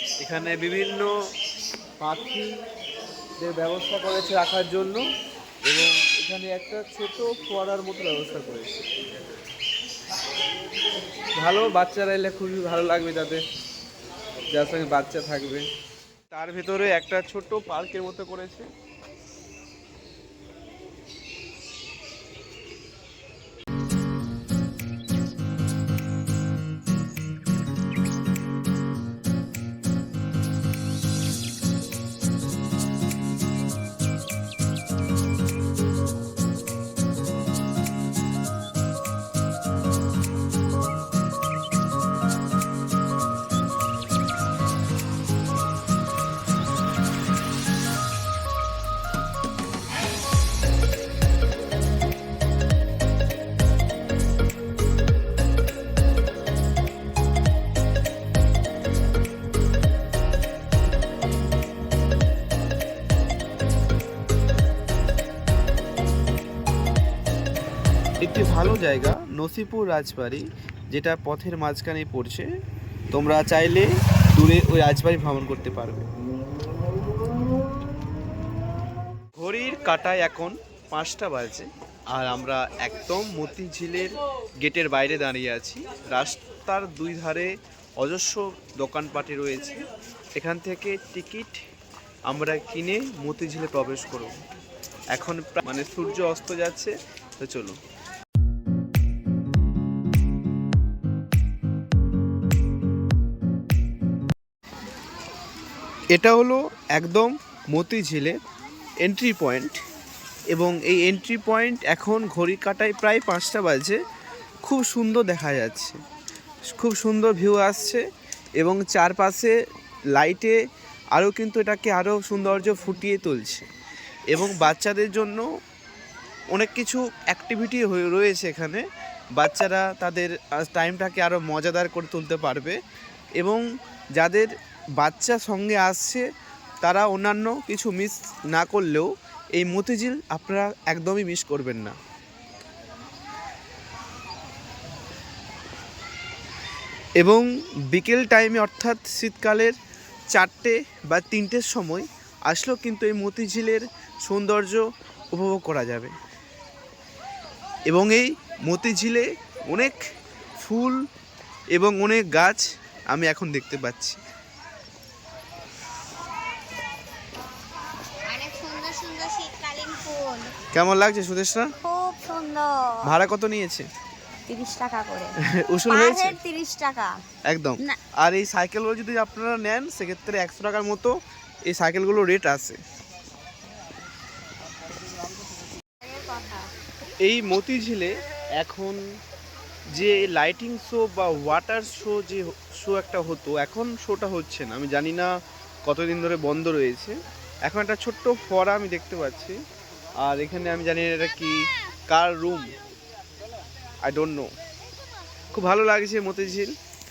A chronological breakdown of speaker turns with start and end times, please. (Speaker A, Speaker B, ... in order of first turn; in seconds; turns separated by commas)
Speaker A: 0.2-1.1, Speaker A: 2.0-2.6, Speaker A: 3.4-5.1, Speaker A: 5.6-9.0, Speaker A: 11.3-13.4, Speaker A: 14.5-15.7, Speaker A: 16.3-18.7, Speaker A: 68.2-72.5, Speaker A: 73.1-76.1, Speaker A: 79.3-89.8, Speaker A: 90.3-91.6, Speaker A: 92.3-94.3, Speaker A: 95.1-97.8, Speaker A: 106.1-108.3, Speaker A: 109.0-109.8, Speaker A: 110.5-114.0, Speaker A: 114.6-116.0, Speaker A: 116.7-118.0, Speaker A: 118.6-119.5, Speaker A: 120.1-120.6, Speaker A: 121.1-123.7, Speaker A: 124.3-125.4, Speaker A: 126.5-128.8, Speaker A: 129.4-132.8, Speaker A: 133.4-133.6, Speaker A: 134.2-136.3, Speaker A: 136.8-142.0, Speaker A: 147.2-149.8, Speaker A: 150.3-156.1, Speaker A: 157.9-160.0, Speaker A: 160.6-161.0, Speaker A: 161.7-164.2, Speaker B: 168.2-170.5, Speaker A: 170.7-171.8, Speaker B: 171.8-173.1, Speaker A: 173.0-173.9, Speaker B: 174.5-175.3, Speaker A: 175.4-176.4, Speaker B: 175.9-177.2, Speaker A: 177.5-181.1, Speaker A: 181.7-182.8, Speaker B: 186.0-186.7, Speaker A: 187.2-189.0, Speaker A: 189.9-199.6, Speaker A: 200.2-202.7, Speaker A: 204.0-204.5, Speaker A: 205.5-206.7